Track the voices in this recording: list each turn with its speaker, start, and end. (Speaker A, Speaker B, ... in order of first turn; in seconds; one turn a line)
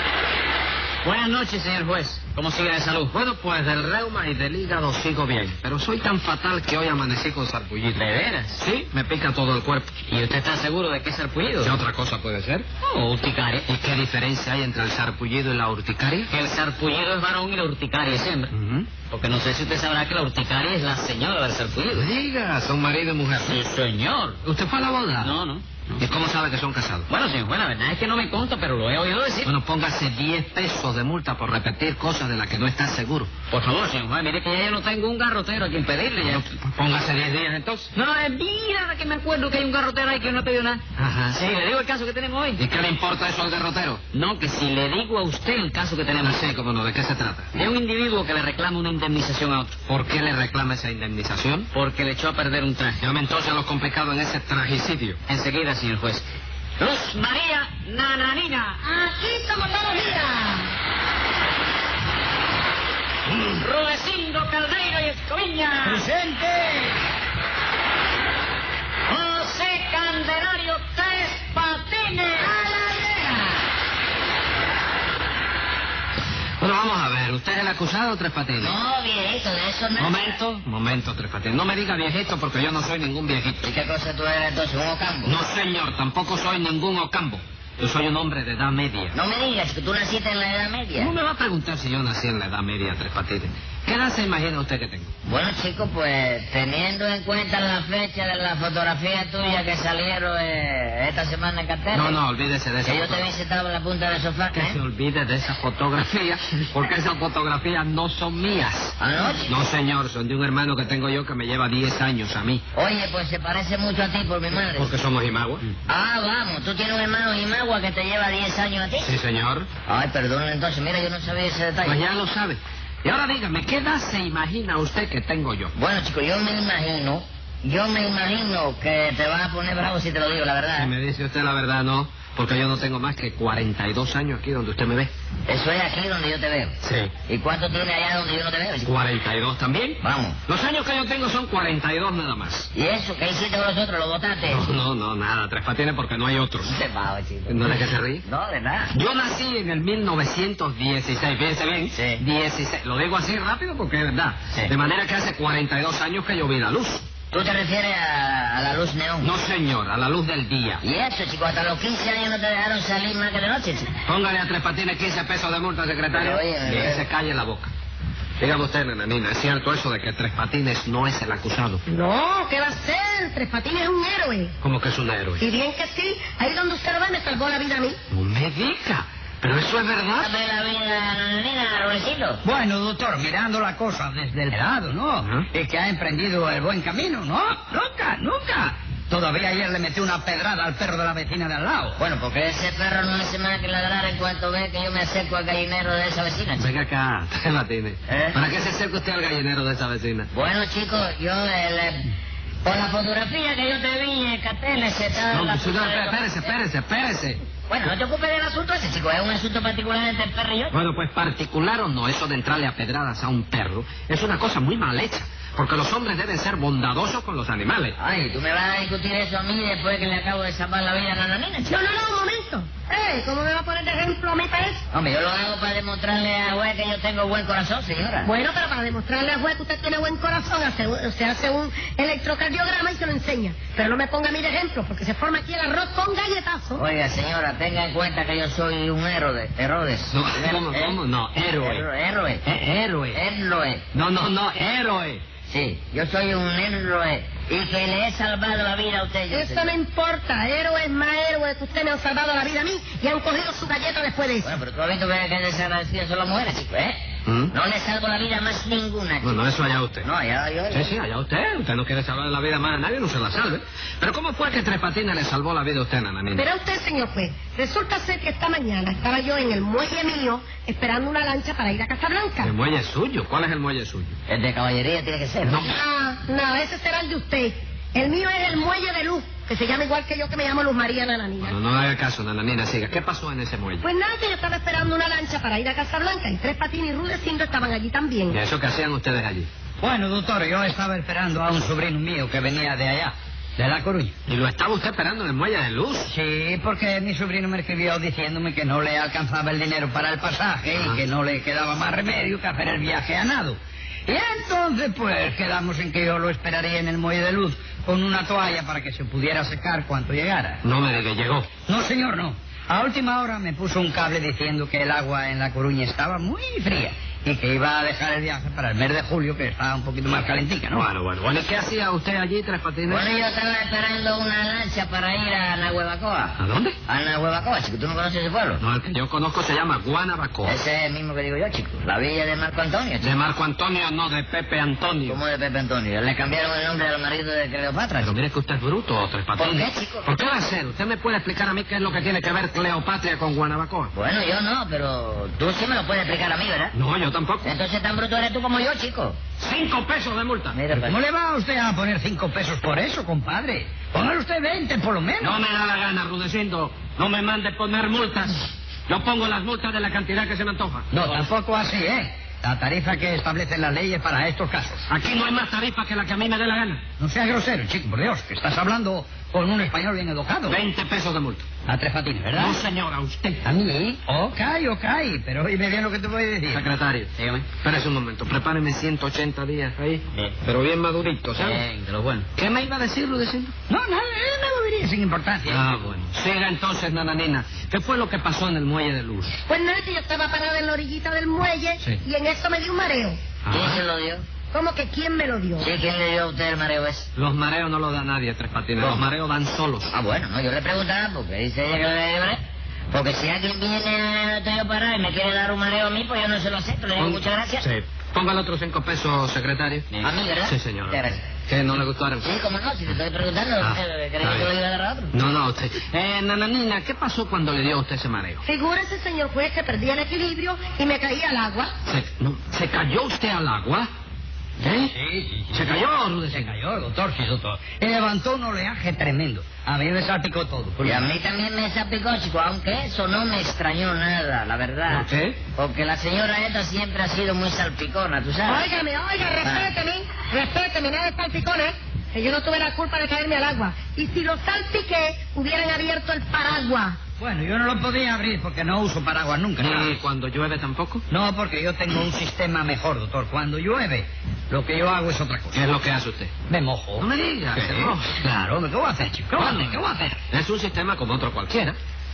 Speaker A: 1.0-3.1
Speaker B: 3.1-10.0
Speaker A: 7.9-8.6
Speaker A: 10.1-11.7
Speaker B: 11.6-12.7
Speaker A: 12.8-13.7
Speaker B: 13.7-16.3
Speaker A: 16.3-18.5
Speaker B: 18.5-18.9
Speaker A: 19.1-22.0
Speaker B: 21.9-23.6
Speaker A: 23.4-24.4
Speaker B: 24.4-25.4
Speaker A: 25.2-25.6
Speaker B: 26.0-27.1
Speaker A: 27.1-29.5
Speaker B: 29.4-33.4
Speaker A: 33.5-36.4
Speaker B: 36.2-37.9
Speaker A: 37.9-40.8
Speaker B: 41.0-41.4
Speaker A: 41.3-42.6
Speaker B: 42.6-44.0
Speaker A: 44.1-46.5
Speaker B: 46.2-47.5
Speaker A: 47.5-49.7
Speaker B: 49.9-51.7
Speaker A: 51.7-53.0
Speaker B: 53.0-55.2
Speaker A: 55.3-56.2
Speaker A: 56.8-58.8
Speaker C: 58.9-60.6
Speaker A: 63.6-66.0
Speaker D: 65.8-66.9
Speaker A: 69.1-73.4
Speaker B: 76.6-78.7
Speaker E: 78.6-80.3
Speaker B: 80.0-83.7
Speaker E: 83.6-85.4
Speaker B: 85.2-89.2
Speaker E: 89.1-91.1
Speaker B: 91.0-95.1
Speaker E: 95.2-102.2
Speaker B: 101.9-103.3
Speaker E: 102.8-104.8
Speaker B: 104.5-112.6
Speaker E: 109.0-109.6
Speaker E: 112.7-115.0
Speaker B: 114.7-115.7
Speaker E: 115.9-119.1
Speaker B: 119.0-119.7
Speaker E: 119.9-122.0
Speaker B: 121.8-125.7
Speaker E: 125.7-130.9
Speaker B: 130.8-135.1
Speaker E: 135.5-136.8
Speaker B: 136.8-137.1
Speaker E: 137.3-138.9
Speaker B: 138.8-142.7
Speaker E: 140.0-140.4
Speaker E: 142.7-144.7
Speaker B: 144.5-146.7
Speaker E: 146.6-148.9
Speaker B: 147.5-148.2
Speaker B: 148.9-157.0
Speaker E: 151.9-152.2
Speaker E: 157.3-159.3
Speaker B: 159.2-160.8
Speaker E: 160.8-163.9
Speaker B: 164.0-167.7
Speaker E: 166.1-167.1
Speaker B: 168.4-171.8
Speaker C: 171.9-174.5
Speaker B: 174.6-175.4
Speaker C: 175.4-177.9
Speaker B: 178.1-180.3
Speaker E: 180.2-182.4
Speaker D: 182.4-192.0
Speaker E: 192.0-196.7
Speaker B: 196.6-200.3
Speaker E: 198.1-198.4
Speaker E: 200.3-202.1
Speaker E: 202.6-206.3
Speaker B: 205.3-207.4
Speaker E: 207.7-210.7
Speaker B: 210.7-217.9
Speaker E: 218.0-221.8
Speaker C: 221.7-224.8
Speaker E: 224.9-228.3
Speaker C: 228.2-236.8
Speaker E: 236.8-241.0
Speaker B: 240.1-241.8
Speaker E: 241.6-242.4
Speaker B: 242.4-243.2
Speaker E: 243.1-243.8
Speaker B: 243.9-245.2
Speaker E: 245.5-249.8
Speaker C: 249.3-254.6
Speaker E: 254.4-257.0
Speaker B: 257.2-257.5
Speaker E: 257.5-259.4
Speaker B: 259.2-260.1
Speaker E: 260.0-260.9
Speaker B: 260.7-266.5
Speaker C: 266.3-272.5
Speaker B: 272.4-274.1
Speaker E: 274.3-275.6
Speaker B: 275.4-275.7
Speaker C: 275.6-281.5
Speaker B: 281.4-283.8
Speaker C: 283.8-288.4
Speaker B: 288.3-289.5
Speaker D: 289.8-294.1
Speaker B: 294.3-296.1
Speaker D: 296.1-310.6
Speaker B: 300.7-301.0
Speaker B: 310.6-311.5
Speaker D: 311.6-320.9
Speaker B: 320.7-323.1
Speaker E: 322.9-328.6
Speaker B: 326.4-326.8
Speaker B: 328.6-330.6
Speaker E: 330.4-333.1
Speaker B: 333.0-335.2
Speaker E: 335.1-338.1
Speaker B: 338.0-343.9
Speaker E: 339.4-340.1
Speaker E: 343.9-346.7
Speaker B: 346.7-347.5
Speaker E: 347.4-349.2
Speaker B: 349.4-350.6
Speaker E: 350.5-351.0
Speaker D: 350.8-355.4
Speaker B: 355.2-361.0
Speaker D: 360.9-364.9
Speaker B: 364.9-366.8
Speaker D: 367.0-370.6
Speaker B: 370.5-371.4
Speaker D: 371.7-372.6
Speaker B: 372.3-373.5
Speaker D: 373.4-376.6
Speaker B: 376.5-381.6
Speaker A: 377.1-377.4
Speaker A: 381.4-382.2
Speaker B: 382.4-383.5
Speaker D: 383.7-385.7
Speaker B: 385.5-389.3
Speaker C: 389.5-393.2
Speaker B: 393.4-393.8
Speaker E: 393.5-394.2
Speaker C: 394.5-395.7
Speaker E: 395.6-397.1
Speaker B: 397.1-399.9
Speaker E: 398.8-399.0
Speaker E: 399.9-402.4
Speaker E: 402.9-407.6
Speaker B: 407.0-412.3
Speaker E: 410.0-411.2
Speaker E: 412.2-415.1
Speaker B: 413.6-414.5
Speaker B: 415.1-418.4
Speaker C: 418.5-421.7
Speaker B: 421.9-423.9
Speaker B: 424.6-424.9
Speaker D: 424.8-431.1
Speaker B: 425.5-426.5
Speaker E: 430.8-438.7
Speaker B: 434.9-435.4
Speaker C: 438.5-446.9
Speaker E: 439.4-439.7
Speaker D: 447.2-449.9
Speaker B: 449.6-451.0
Speaker D: 451.1-455.6
Speaker B: 455.5-456.3
Speaker D: 456.5-460.2
Speaker B: 457.0-458.1
Speaker B: 459.3-461.8